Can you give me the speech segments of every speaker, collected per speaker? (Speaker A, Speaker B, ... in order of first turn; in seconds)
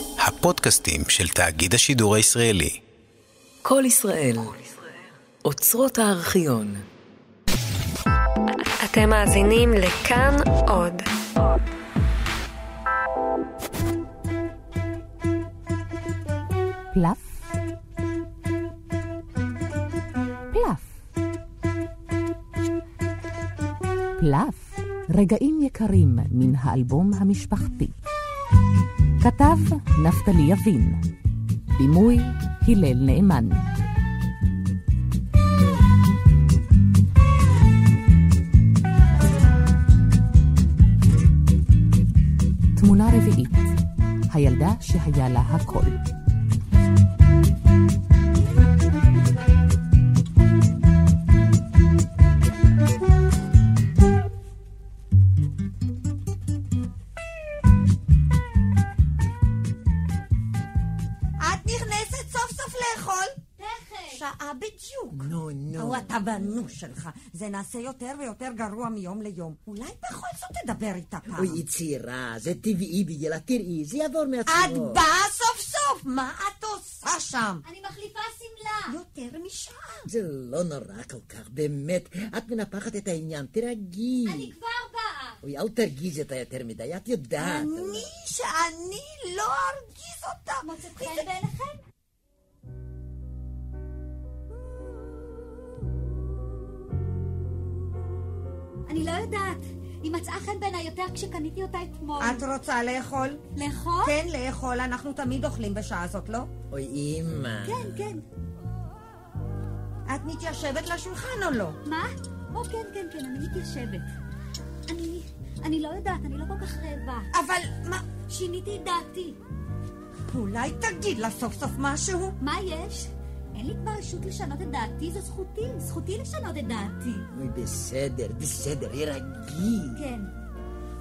Speaker A: 0.2-2.8
Speaker B: 3.6-4.7, 5.4-6.8
Speaker C: 8.8-11.1
Speaker D: 16.9-17.4, 20.5-20.9, 24.2-27.9, 29.2-31.0, 31.8-33.7, 42.8-43.7, 44.3-46.0
Speaker E: 61.4-63.4, 64.1-71.6, 74.5-77.6, 78.9-80.1, 87.4-91.2, 102.2-103.4, 104.0-106.5, 110.1-111.8, 117.3-118.0, 120.3-122.4
Speaker F: 63.6-64.2, 77.6-79.0, 84.2-85.4, 90.6-91.8, 98.9-102.4, 103.5-104.2, 107.6-108.2, 111.8-114.1, 114.9-117.3, 118.3-119.4, 122.4-127.3, 129.9-130.3
Speaker G: 65.1-66.5, 71.3-75.0, 80.0-84.5, 85.4-88.1, 106.7-108.0, 127.3-130.0